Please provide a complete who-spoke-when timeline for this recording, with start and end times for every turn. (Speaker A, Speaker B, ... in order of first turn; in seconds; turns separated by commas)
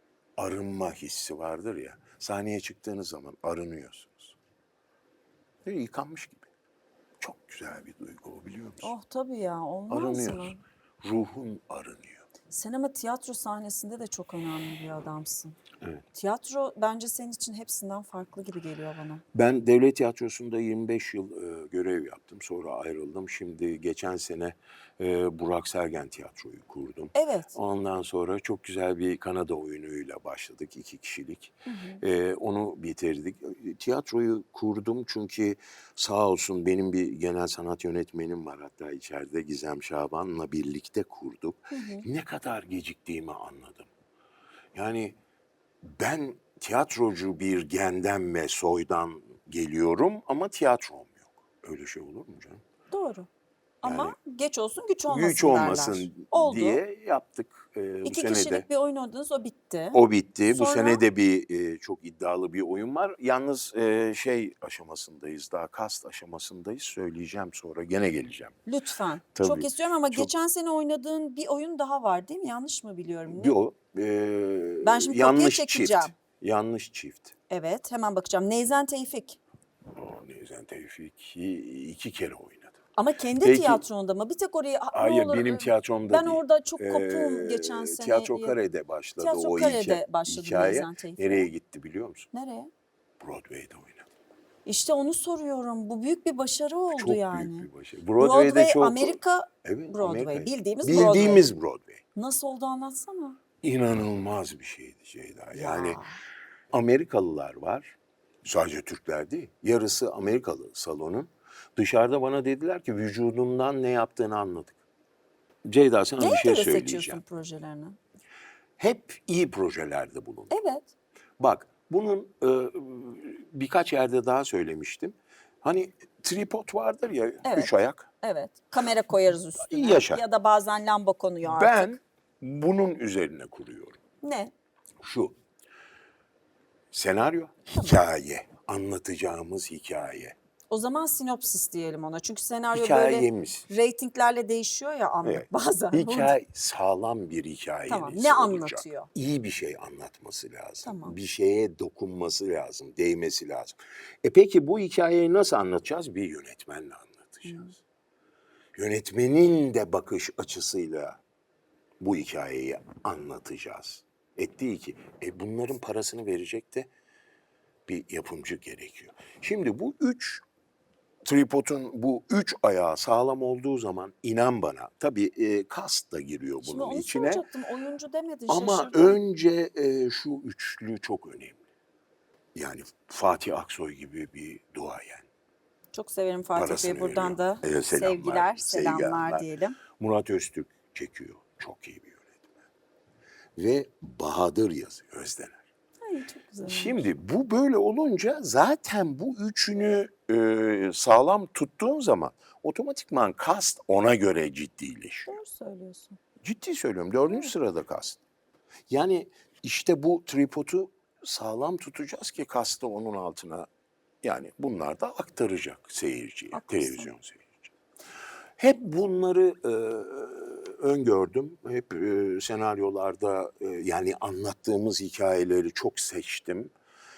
Speaker A: 0.4-4.3, Speaker A: 5.6-6.5, Speaker A: 7.2-8.9, Speaker B: 8.8-10.6, Speaker A: 9.9-12.2, Speaker B: 12.5-15.6, Speaker B: 16.1-19.2, Speaker A: 19.3-43.9, Speaker B: 27.1-27.5, Speaker B: 31.6-32.0, Speaker B: 41.7-42.0, Speaker A: 44.7-45.1, Speaker A: 45.8-52.6, Speaker B: 52.9-53.3, Speaker B: 53.8-56.8, Speaker A: 53.8-54.1, Speaker A: 55.1-58.6, Speaker B: 58.0-61.0, Speaker A: 59.9-68.6, Speaker B: 68.7-73.5, Speaker A: 69.3-70.3, Speaker A: 73.3-77.3, Speaker B: 74.8-76.1, Speaker B: 77.5-79.4, Speaker A: 79.9-82.8, Speaker B: 82.9-88.6, Speaker A: 83.4-83.8, Speaker A: 84.9-92.3, Speaker B: 89.2-91.5, Speaker B: 92.3-92.7, Speaker A: 93.2-94.0, Speaker B: 94.6-97.7, Speaker A: 96.9-102.0, Speaker B: 98.2-101.5, Speaker B: 102.1-103.4, Speaker A: 103.6-106.0, Speaker B: 105.5-106.2, Speaker A: 106.7-114.8, Speaker A: 115.6-117.2, Speaker B: 116.2-118.0, Speaker A: 118.8-120.5, Speaker B: 120.5-120.9, Speaker A: 121.4-128.1, Speaker B: 127.4-127.7, Speaker B: 128.2-131.9, Speaker A: 129.5-130.2, Speaker A: 131.4-134.0, Speaker B: 134.2-134.5, Speaker A: 135.0-135.3, Speaker A: 136.9-140.3, Speaker B: 140.7-146.4, Speaker A: 142.7-143.7, Speaker A: 145.2-157.8, Speaker B: 147.9-149.1, Speaker B: 150.8-151.2, Speaker B: 157.4-157.7, Speaker A: 158.7-161.2, Speaker A: 162.0-166.9, Speaker A: 167.9-170.4, Speaker A: 171.2-177.4, Speaker B: 176.6-179.2, Speaker A: 178.5-181.6, Speaker A: 182.5-185.3, Speaker B: 185.9-189.8, Speaker A: 186.5-192.5, Speaker A: 193.6-195.6, Speaker B: 196.0-197.1, Speaker A: 196.6-205.4, Speaker B: 205.3-206.2, Speaker A: 206.4-208.2, Speaker A: 208.9-213.7, Speaker A: 214.2-217.7, Speaker B: 216.5-217.1, Speaker A: 218.6-226.7